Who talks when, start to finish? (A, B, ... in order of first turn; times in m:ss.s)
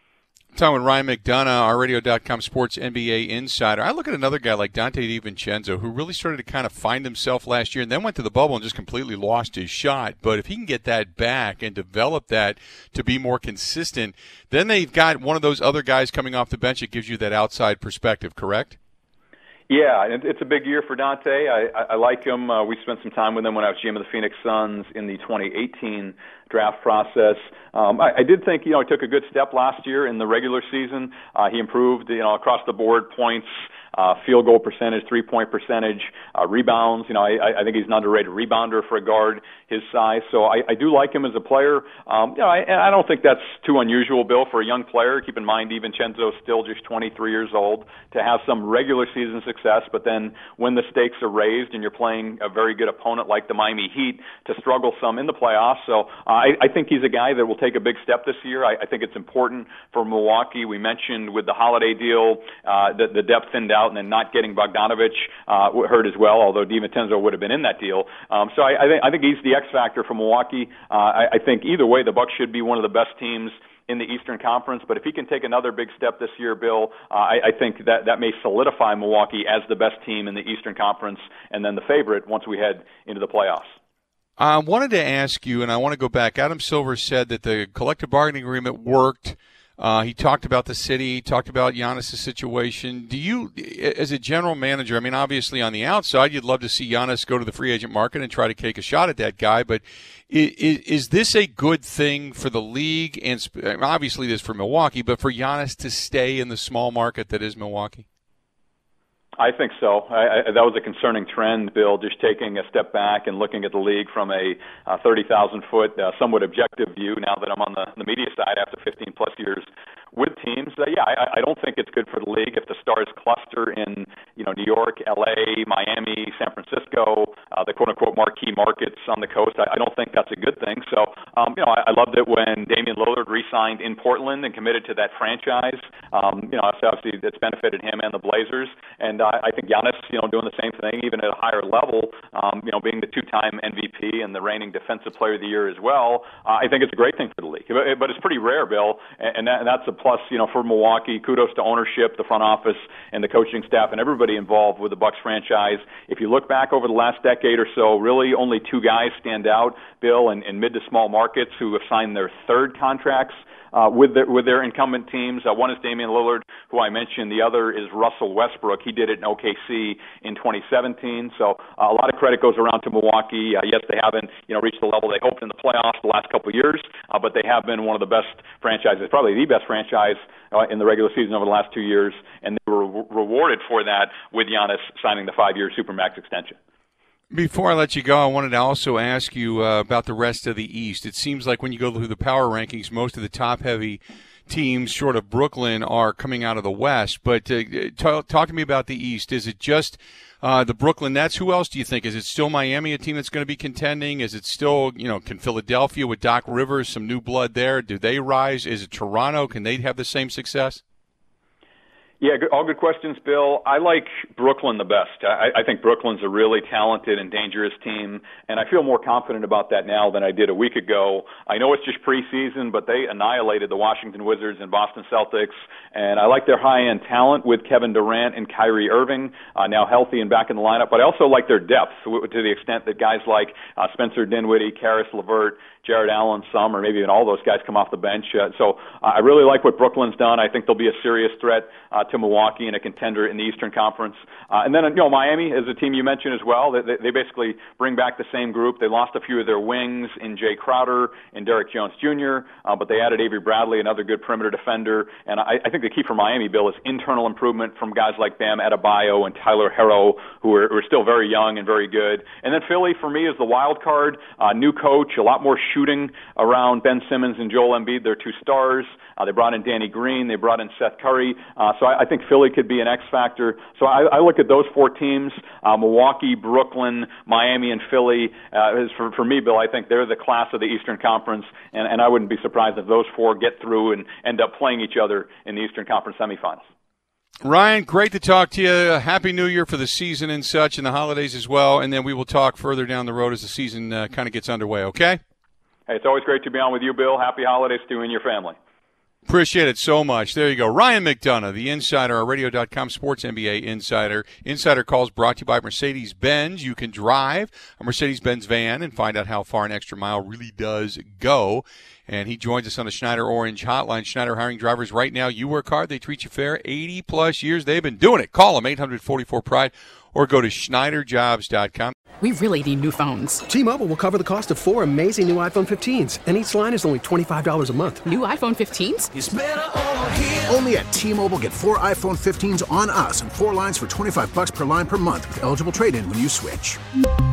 0:00.5-0:18.8 A
0:19.7-1:23.7 B
1:24.4-1:48.0 A
1:49.4-3:06.6 B
3:07.3-3:30.8 A
3:32.2-4:46.6 B
4:47.4-4:55.2 A
4:55.9-4:58.6 B
4:59.3-5:22.0 A
5:22.2-5:23.4 C
5:23.5-5:28.0 D
5:28.0-5:29.1 C
5:29.1-5:36.8 E